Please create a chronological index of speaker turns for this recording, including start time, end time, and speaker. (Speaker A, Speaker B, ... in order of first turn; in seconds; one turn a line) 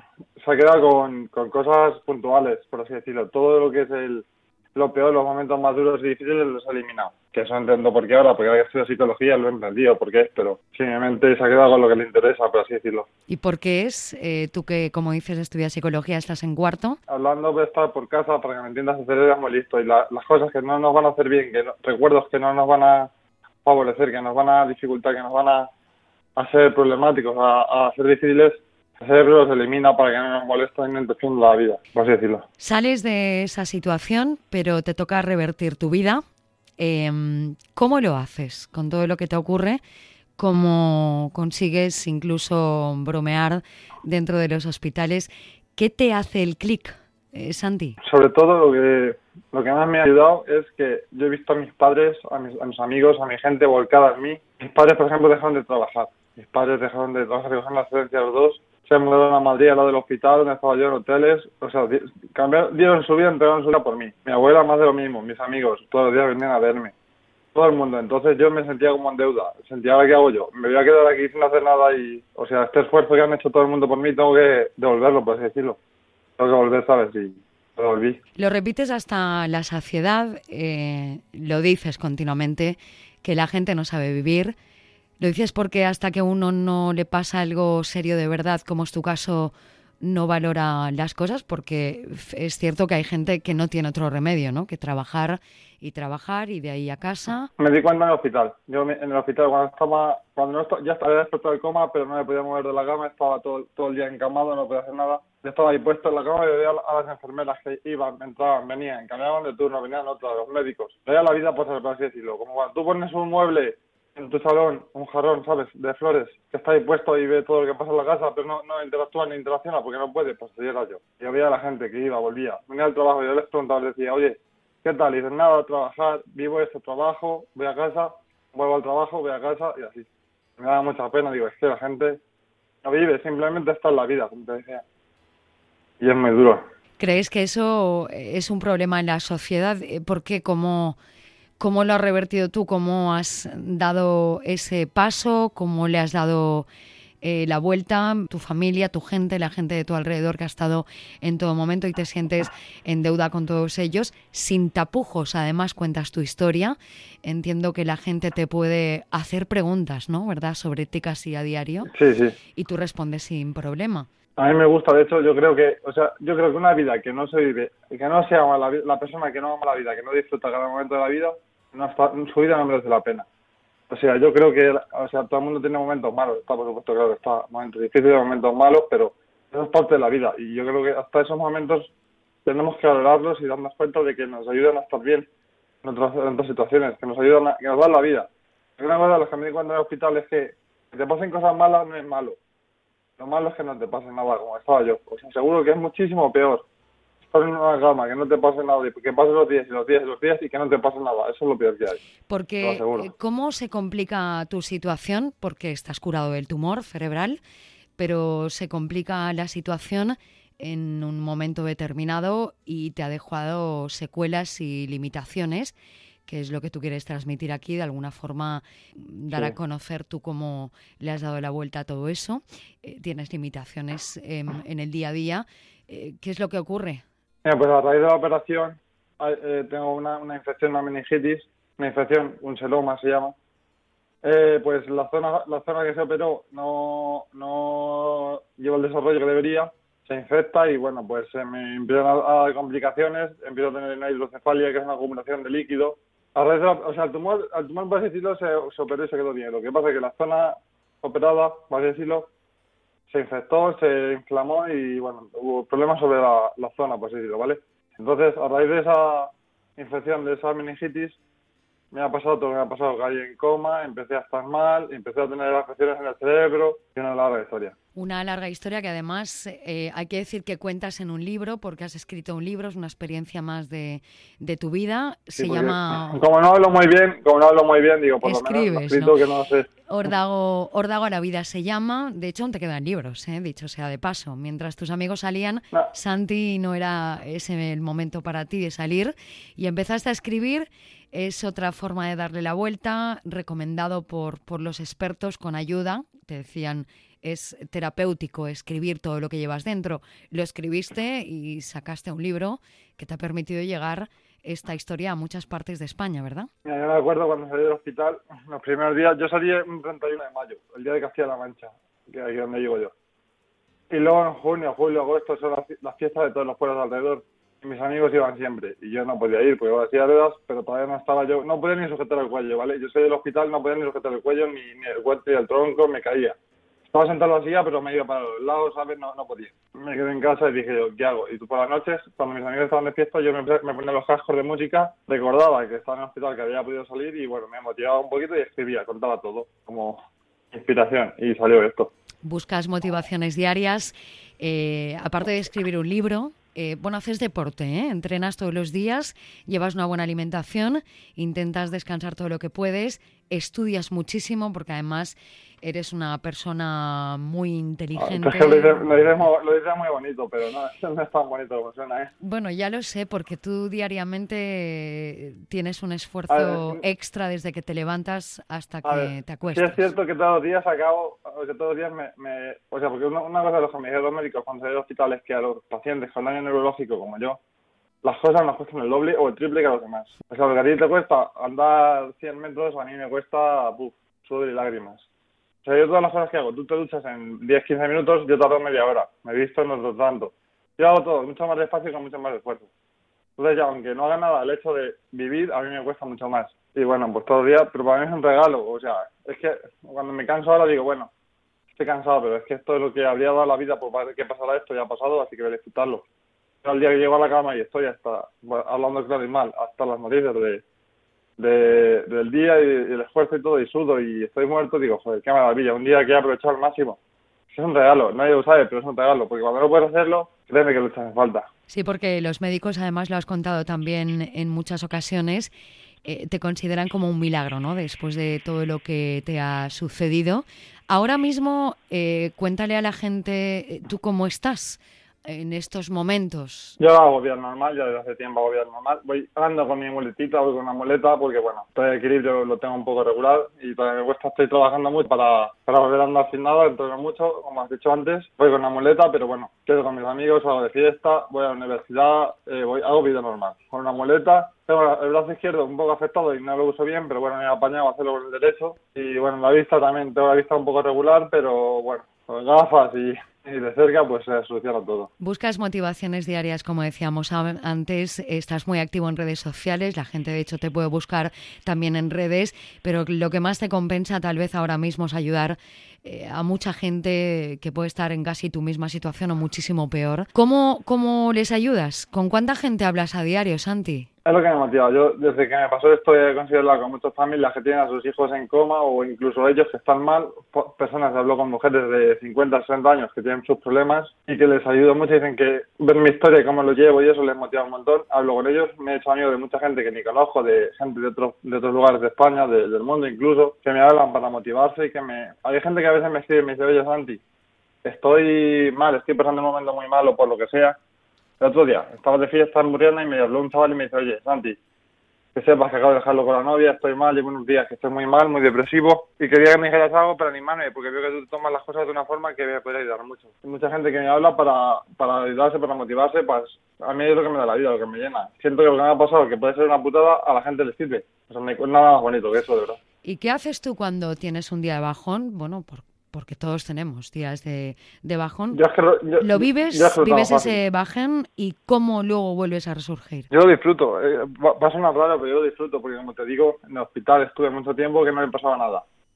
Speaker A: 0.4-13.1
Speaker B: 13.3-17.0
Speaker A: 17.1-23.1
Speaker A: 23.6-25.7
Speaker A: 26.4-32.4
Speaker B: 32.6-36.2
Speaker B: 36.8-39.8
Speaker B: 40.4-48.0
Speaker A: 48.0-66.9
Speaker A: 67.5-75.8
Speaker A: 76.4-78.2
Speaker B: 78.4-84.5
Speaker B: 85.2-97.5
Speaker A: 97.6-132.2
Speaker A: 132.8-134.8
Speaker A: 136.0-136.6
Speaker B: 137.0-141.0
Speaker B: 141.6-146.7
Speaker B: 147.2-161.9
Speaker A: 161.9-162.3
Speaker B: 162.6-164.1
Speaker A: 164.4-173.2
Speaker A: 173.9-181.9
Speaker A: 182.4-185.3
Speaker A: 185.8-192.4
Speaker A: 193.2-196.6
Speaker A: 197.3-202.0
Speaker B: 202.3-207.4
Speaker A: 202.6-203.1
Speaker B: 208.0-215.7
Speaker B: 216.2-227.0
Speaker A: 227.4-233.3
Speaker A: 234.2-252.3
Speaker A: 253.1-261.2
Speaker A: 261.9-267.7
Speaker B: 267.9-276.2
Speaker A: 275.4-279.6
Speaker B: 278.2-279.1
Speaker B: 279.9-306.5
Speaker A: 306.6-312.9
Speaker A: 313.9-326.4
Speaker A: 326.9-340.0
Speaker A: 340.5-341.9
Speaker B: 342.2-359.2
Speaker A: 358.0-362.1
Speaker B: 362.2-369.8
Speaker A: 366.3-366.8
Speaker A: 368.8-377.4
Speaker A: 378.0-385.0
Speaker A: 385.6-392.7
Speaker A: 393.4-401.1
Speaker A: 401.8-406.0
Speaker A: 406.6-410.6
Speaker A: 411.4-417.0
Speaker A: 417.5-421.5
Speaker B: 421.7-425.5
Speaker B: 426.0-436.8
Speaker A: 436.8-465.1
Speaker B: 465.2-484.1
Speaker A: 484.2-507.2
Speaker A: 507.8-510.8
Speaker A: 511.4-514.6
Speaker A: 515.3-532.8
Speaker B: 533.0-538.6
Speaker A: 538.5-540.6
Speaker B: 539.2-543.3
Speaker A: 543.3-548.8